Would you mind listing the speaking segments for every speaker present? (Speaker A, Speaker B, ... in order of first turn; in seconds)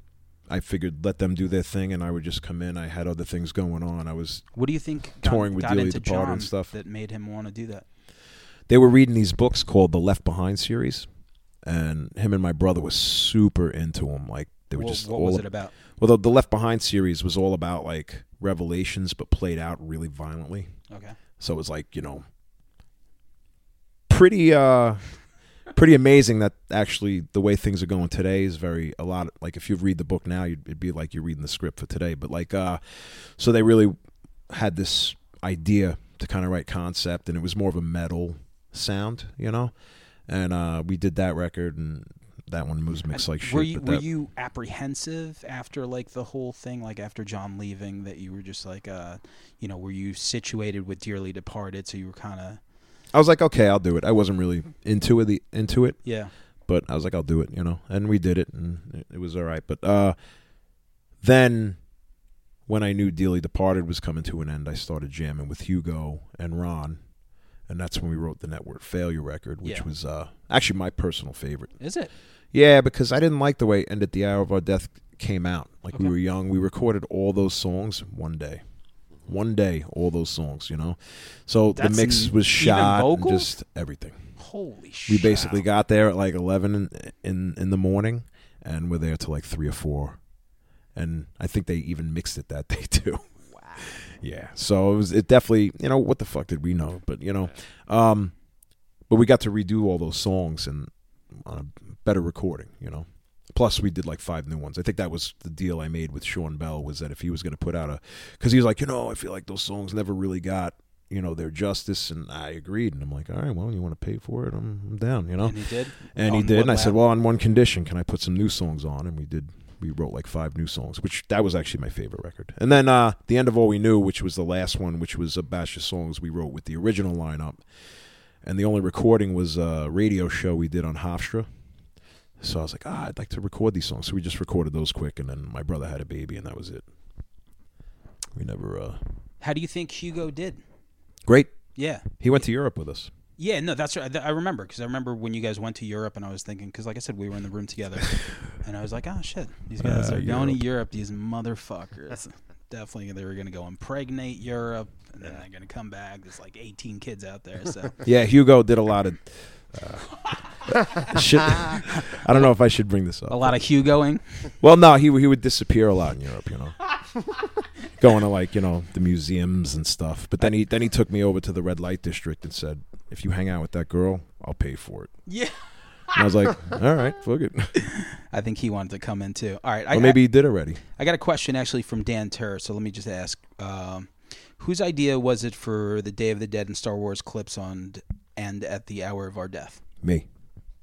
Speaker A: 0.5-4.5, 5.2-6.7, 8.7-11.1, 11.6-20.7, 21.4-22.2, 24.1-25.0, 25.7-34.0, 34.5-39.7, 40.3-44.0, 53.1-56.0, 56.7-60.2, 61.2-61.8, 62.7-67.0, 67.7-71.8, 72.5-78.6, 79.2-84.3, 85.1-90.2, 91.0-93.3, 93.8-98.3, 99.1-115.6, 116.1-127.6, 128.4-131.5, 132.4-136.9, 138.3-139.0, 141.2-141.6, 142.2-143.1, 149.8-150.6, 158.0-163.5, 164.6-166.8, 168.0-175.1, 176.1-177.8, 179.9-180.8, 190.0-190.3
Speaker B: 4.5-7.8, 14.7-15.7, 20.9-21.2, 43.1-52.6, 56.0-56.3, 69.6-69.9, 71.8-72.1, 81.8-83.5, 84.4-85.6, 115.4-117.0, 139.4-140.6, 141.8-142.2, 143.4-158.0, 161.9-162.2, 163.3-164.5, 175.3-175.6, 177.8-180.2, 181.0-189.8